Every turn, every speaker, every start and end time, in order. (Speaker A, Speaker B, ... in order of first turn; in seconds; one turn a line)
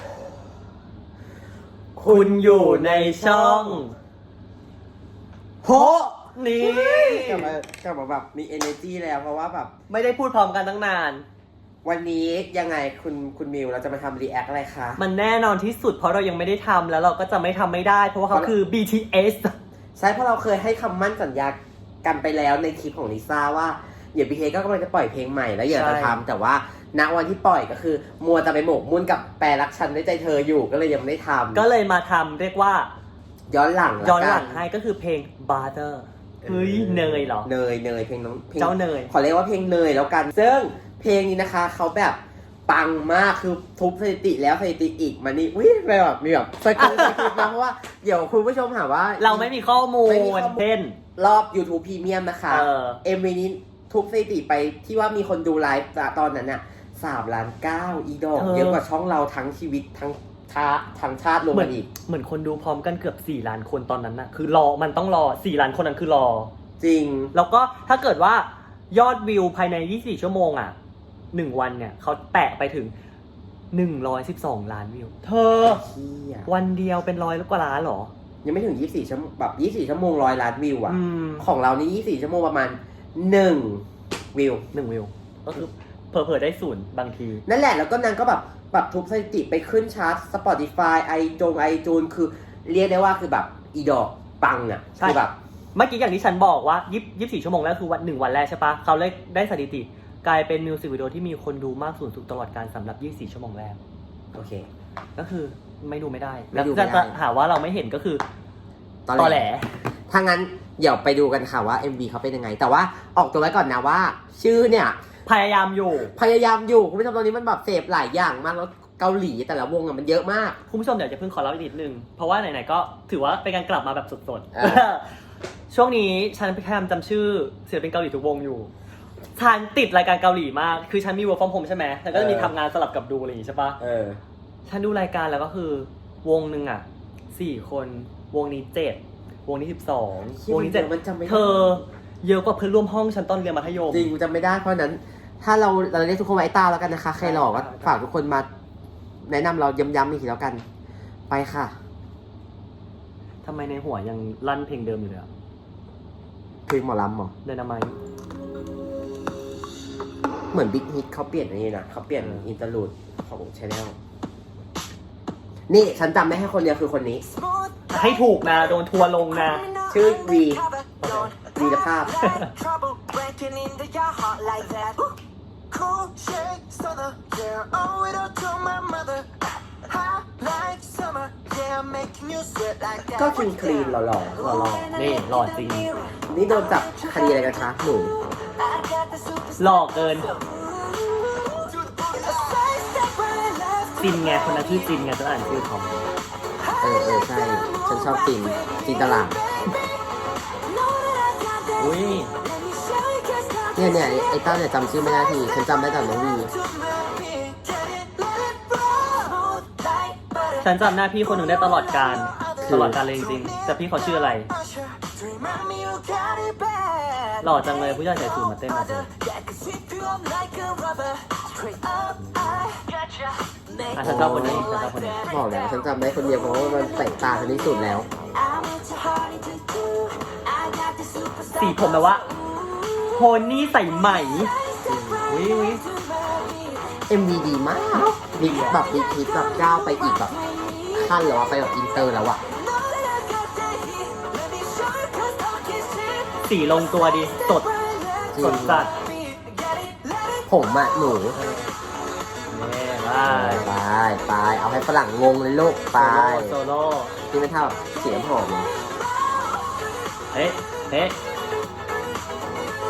Speaker A: 1.9-3.8
Speaker B: 2.1-4.0
Speaker B: 5.6-7.5
Speaker A: 5.6-9.7
Speaker B: 9.9-11.2
Speaker A: 11.8-15.0
Speaker B: 15.0-19.5
Speaker A: 20.0-31.6
Speaker B: 25.7-26.1
Speaker B: 31.5-32.9
Speaker A: 33.5-34.6
Speaker B: 34.0-37.5
Speaker A: 36.4-61.9
Speaker B: 38.6-39.1
Speaker B: 46.8-47.5
Speaker B: 49.2-51.0
Speaker B: 52.5-53.0
Speaker B: 58.3-58.8
Speaker B: 61.5-66.5
Speaker A: 66.8-67.3
Speaker B: 67.3-70.8
Speaker B: 71.3-72.9
Speaker B: 73.7-75.8
Speaker A: 75.6-76.5
Speaker B: 76.5-78.1
Speaker A: 78.4-84.6
Speaker B: 80.9-81.5
Speaker B: 84.7-87.4
Speaker A: 87.5-95.3
Speaker B: 95.0-95.2
Speaker B: 95.7-103.8
Speaker A: 104.3-104.7
Speaker B: 105.2-108.2
Speaker A: 106.5-107.2
Speaker A: 109.1-109.5
Speaker B: 109.2-109.8
Speaker A: 110.1-115.0
Speaker B: 115.2-116.1
Speaker A: 116.0-120.6
Speaker B: 120.7-125.1
Speaker A: 124.5-124.9
Speaker B: 125.7-128.7
Speaker B: 129.3-133.8
Speaker A: 132.1-132.5
Speaker A: 133.8-134.2
Speaker B: 134.7-144.1
Speaker A: 140.3-141.8
Speaker A: 143.9-148.5
Speaker B: 147.1-148.0
Speaker A: 149.2-150.6
Speaker A: 151.3-151.7
Speaker B: 153.4-155.3
Speaker A: 156.7-157.3
Speaker B: 157.4-158.0
Speaker A: 160.5-163.9
Speaker B: 162.2-162.5
Speaker A: 165.7-167.2
Speaker B: 167.7-169.8
Speaker A: 169.8-172.2
Speaker C: 170.1-175.1
Speaker B: 171.0-171.4
Speaker B: 172.2-172.9
Speaker B: 173.4-174.9
Speaker C: 175.8-179.3
Speaker B: 175.9-179.2
Speaker B: 179.9-182.9
Speaker C: 179.9-184.9
Speaker A: 183.1-184.9
Speaker B: 184.9-186.1
Speaker A: 186.3-188.1
Speaker C: 186.5-187.1
Speaker B: 189.1-190.5
Speaker C: 190.8-193.7
Speaker B: 193.8-196.1
Speaker A: 196.8-199.4
Speaker C: 197.6-199.1
Speaker C: 200.9-201.4
Speaker B: 201.3-202.4
Speaker C: 202.6-204.8
Speaker A: 203.8-206.5
Speaker C: 206.6-210.2
Speaker B: 209.8-214.9
Speaker A: 212.6-213.0
Speaker C: 215.0-217.3
Speaker B: 215.6-216.1
Speaker B: 217.3-221.1
Speaker C: 219.4-221.8
Speaker B: 221.7-222.8
Speaker C: 223.0-223.3
Speaker B: 223.9-225.3
Speaker A: 224.0-224.7
Speaker C: 224.2-224.6
Speaker C: 225.1-227.4
Speaker A: 225.3-228.1
Speaker C: 228.2-231.3
Speaker B: 231.3-232.3
Speaker B: 233.1-234.6
Speaker C: 234.6-235.2
Speaker A: 234.8-235.1
Speaker B: 235.2-235.9
Speaker C: 235.8-237.2
Speaker A: 237.1-240.3
Speaker B: 237.9-238.8
Speaker C: 238.8-241.3
Speaker A: 240.9-242.4
Speaker C: 242.6-246.3
Speaker B: 246.3-248.9
Speaker C: 247.8-248.3
Speaker A: 248.3-248.9
Speaker C: 248.9-250.5
Speaker A: 250.5-251.3
Speaker B: 251.3-251.7
Speaker B: 252.5-253.7
Speaker A: 253.2-256.6
Speaker B: 255.9-257.2
Speaker A: 257.2-258.7
Speaker B: 260.3-261.2